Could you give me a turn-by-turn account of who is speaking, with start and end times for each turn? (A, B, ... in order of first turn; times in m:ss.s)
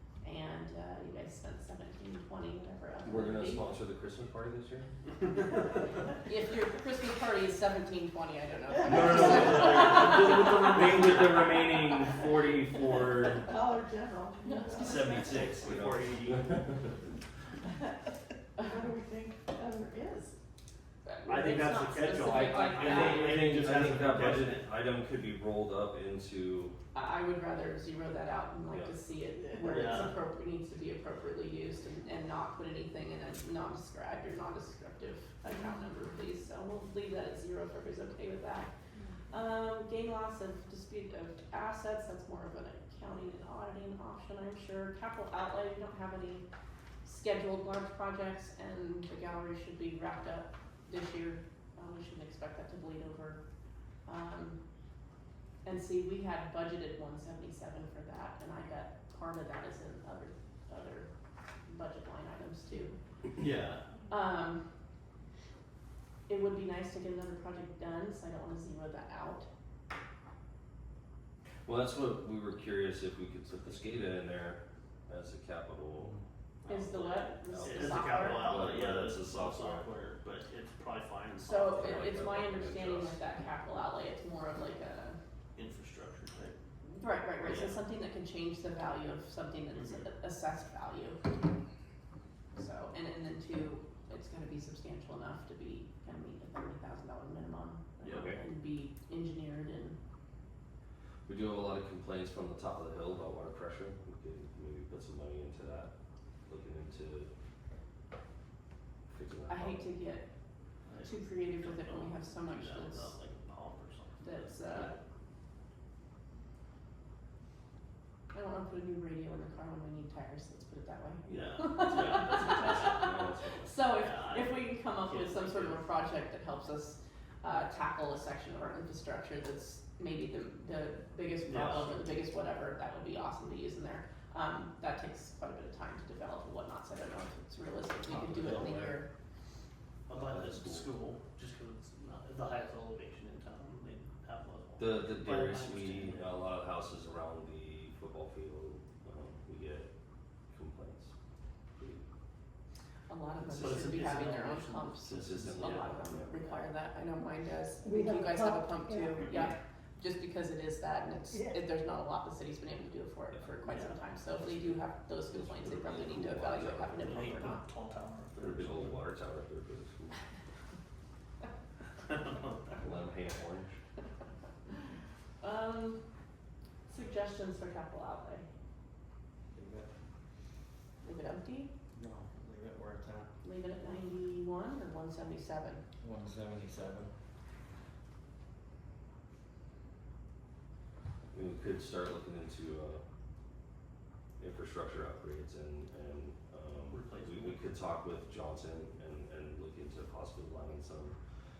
0:00.2-0:03.6 A
0:03.0-0:04.9 B
0:06.2-0:10.8 A
0:08.8-0:13.5 B
0:09.2-0:10.7 C
0:13.4-0:15.4 D
0:14.4-0:15.1 A
0:14.7-0:16.5 C
0:14.8-0:17.0 B
0:18.6-0:20.3 D
0:21.0-0:23.4 A
0:21.2-0:24.7 C
0:22.0-0:26.7 B
0:26.9-0:38.7 A
0:29.7-0:30.1 C
0:39.3-0:46.4 A
0:47.0-0:53.4 A
0:54.0-0:54.6 A
0:55.6-1:01.1 A
1:01.6-1:03.0 A
1:03.4-1:03.9 C
1:04.1-1:04.7 A
1:06.3-1:09.5 A
1:11.6-1:16.2 B
1:16.0-1:16.2 E
1:16.6-1:22.1 C
1:16.6-1:18.6 A
1:17.4-1:19.9 B
1:21.4-1:25.2 A
1:21.7-1:23.2 B
1:25.5-1:26.6 C
1:27.0-1:31.2 A
1:27.4-1:27.8 C
1:29.7-1:30.0 C
1:32.5-1:40.0 A
1:38.0-1:38.3 C
1:38.1-1:38.4 B
1:41.2-1:45.9 B
1:46.4-1:47.3 B
1:49.1-1:49.8 B
1:49.5-1:50.3 A
1:50.9-1:55.0 C
1:51.0-1:53.1 A
1:54.2-1:54.9 A
1:58.3-2:19.1 A
2:01.2-2:03.1 C
2:02.5-2:03.8 B
2:04.0-2:05.8 C
2:11.4-2:12.0 C
2:18.1-2:18.9 E
2:20.1-2:26.3 C
2:20.1-2:20.9 B
2:24.8-2:29.9 B
2:30.5-2:31.1 B
2:31.8-2:32.0 B
2:33.1-2:47.6 A
2:33.4-2:34.4 B
2:33.5-2:36.6 C
2:35.0-2:36.5 B
2:37.8-2:39.5 D
2:43.7-2:44.0 C
2:44.4-2:47.3 B
2:47.0-2:49.0 C
2:48.4-2:50.2 B
2:52.1-2:52.6 C
2:52.8-2:53.7 B
2:55.4-2:56.0 A
2:56.9-2:58.4 A
2:59.5-2:59.9 E
3:01.0-3:01.7 A
3:01.9-3:03.3 E
3:03.4-3:05.8 A
3:06.0-3:07.1 E
3:11.3-3:13.0 B
3:14.4-3:21.2 B
3:16.8-3:17.6 C